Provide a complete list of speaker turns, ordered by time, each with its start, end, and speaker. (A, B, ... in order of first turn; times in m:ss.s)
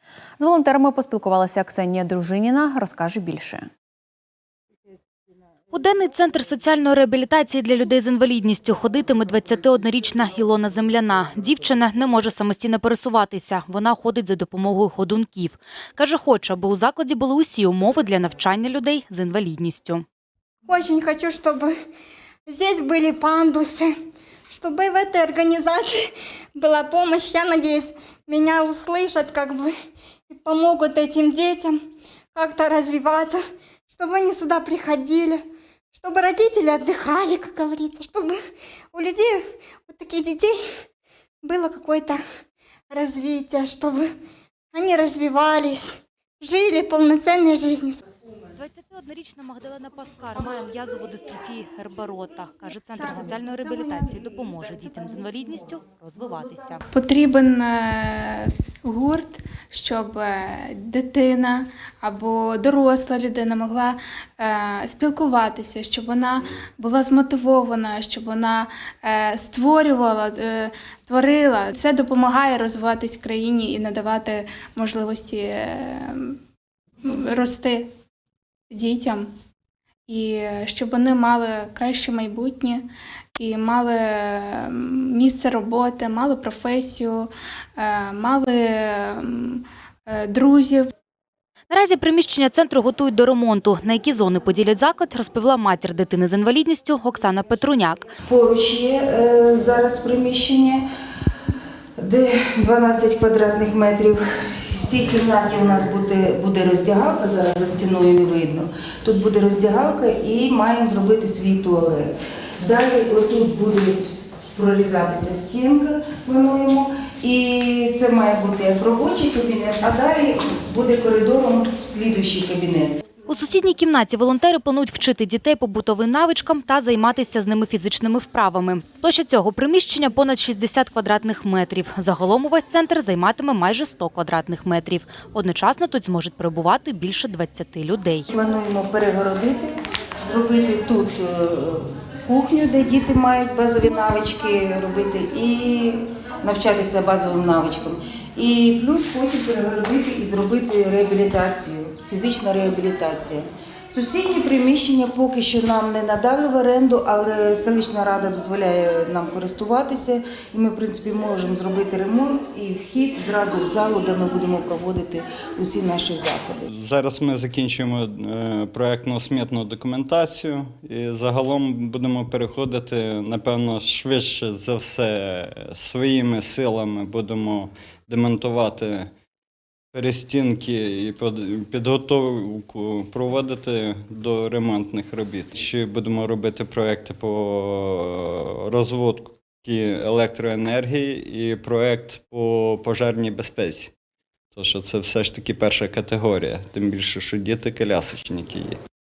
0:00.4-0:03.7 A
0:05.7-0:20.0 B
0:20.7-0:21.7 C
0:22.5-0:23.9 C
0:24.5-0:29.7 C
0:30.3-0:38.4 C
0:38.9-0:40.8 C
0:41.4-0:42.2 C
0:42.9-0:44.1 C
0:44.7-0:48.0 C
0:48.6-0:56.8 B
0:56.9-1:16.4 D
1:17.0-1:17.9 D
1:18.7-1:19.3 D
1:20.1-1:30.9 D
1:31.7-1:38.1 B
1:38.2-1:40.8 E
1:42.0-2:03.0 E
2:03.3-2:18.3 B
2:18.3-2:46.7 E
2:46.7-2:59.1 F
2:59.9-3:13.9 F
3:14.5-3:18.8 F